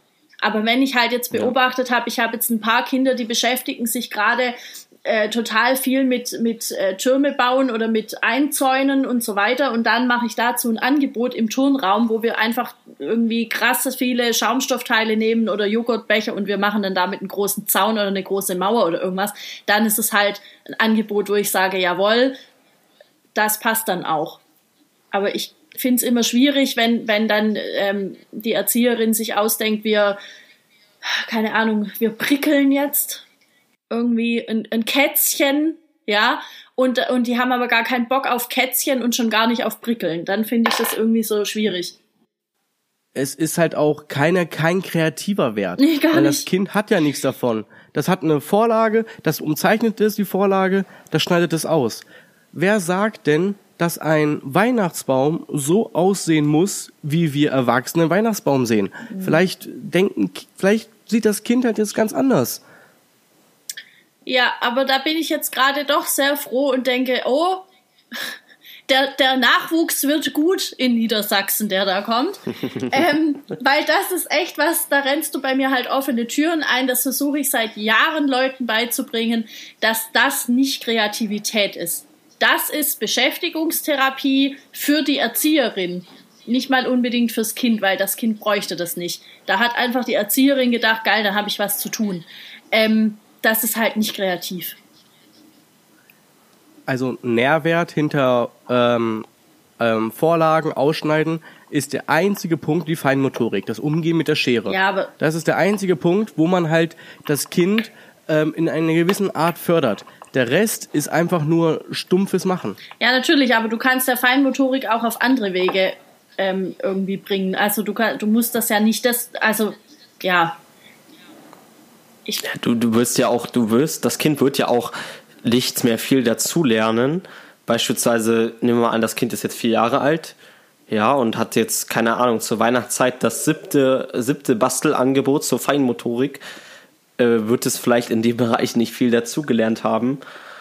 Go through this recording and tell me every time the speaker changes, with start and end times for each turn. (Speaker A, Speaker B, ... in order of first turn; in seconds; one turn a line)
Speaker A: 0.4-22.4
Speaker A: 23.3-24.4
Speaker A: 25.1-30.2
Speaker A: 31.0-33.2
Speaker A: 33.9-42.0
Speaker B: 43.1-62.6
Speaker A: 45.8-46.4
Speaker A: 59.1-59.4
Speaker A: 64.2-67.7
Speaker A: 68.9-94.8
Speaker B: 96.9-99.2
Speaker B: 99.8-112.8
Speaker A: 104.7-105.1
Speaker A: 113.0-120.6
Speaker C: 122.4-130.3
Speaker C: 130.9-136.4
Speaker C: 137.2-140.2